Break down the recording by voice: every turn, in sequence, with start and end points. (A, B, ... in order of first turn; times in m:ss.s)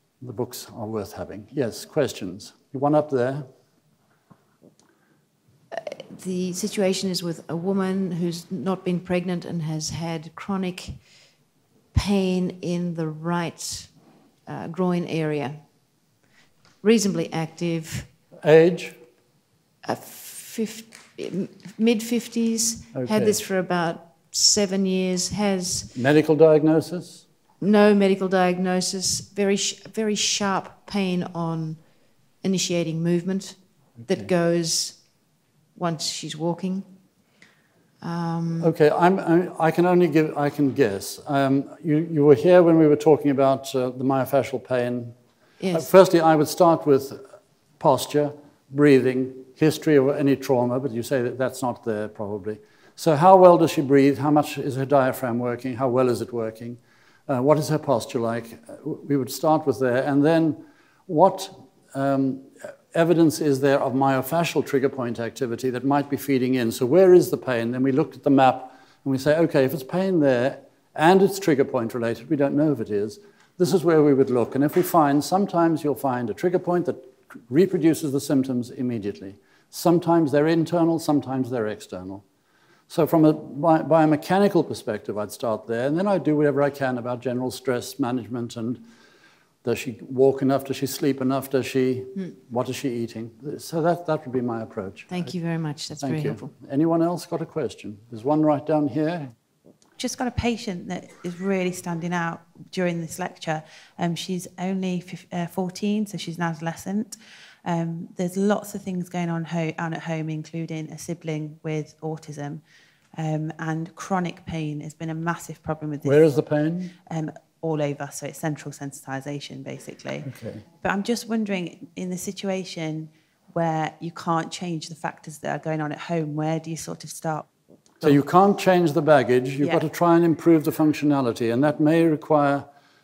0:00.2-0:03.5 A
0:05.7-0:11.1 B
0:11.9-0:13.9 B
0:14.4-0:15.6 B
0:16.8-0:18.1 B
0:18.4-0:19.0 A
0:19.8-0:26.0 B
0:22.9-0:23.4 A
0:25.9-0:27.2 A
0:27.6-0:35.0 B
0:34.0-0:34.3 A
0:35.7-0:36.9 B
0:38.0-0:38.7 B
0:38.6-0:45.1 A
0:45.6-0:45.9 B
0:45.7-0:47.2 A
0:47.8-1:22.2 A
1:22.9-1:28.8 A
1:29.6-1:35.4 A
1:35.1-1:36.5 B
1:36.0-1:39.3 A
1:40.0-1:52.6 C
1:53.1-1:56.4 C
1:56.0-1:56.9 A
1:57.1-2:07.5 C
2:00.2-2:00.6 A
2:08.0-2:12.7 A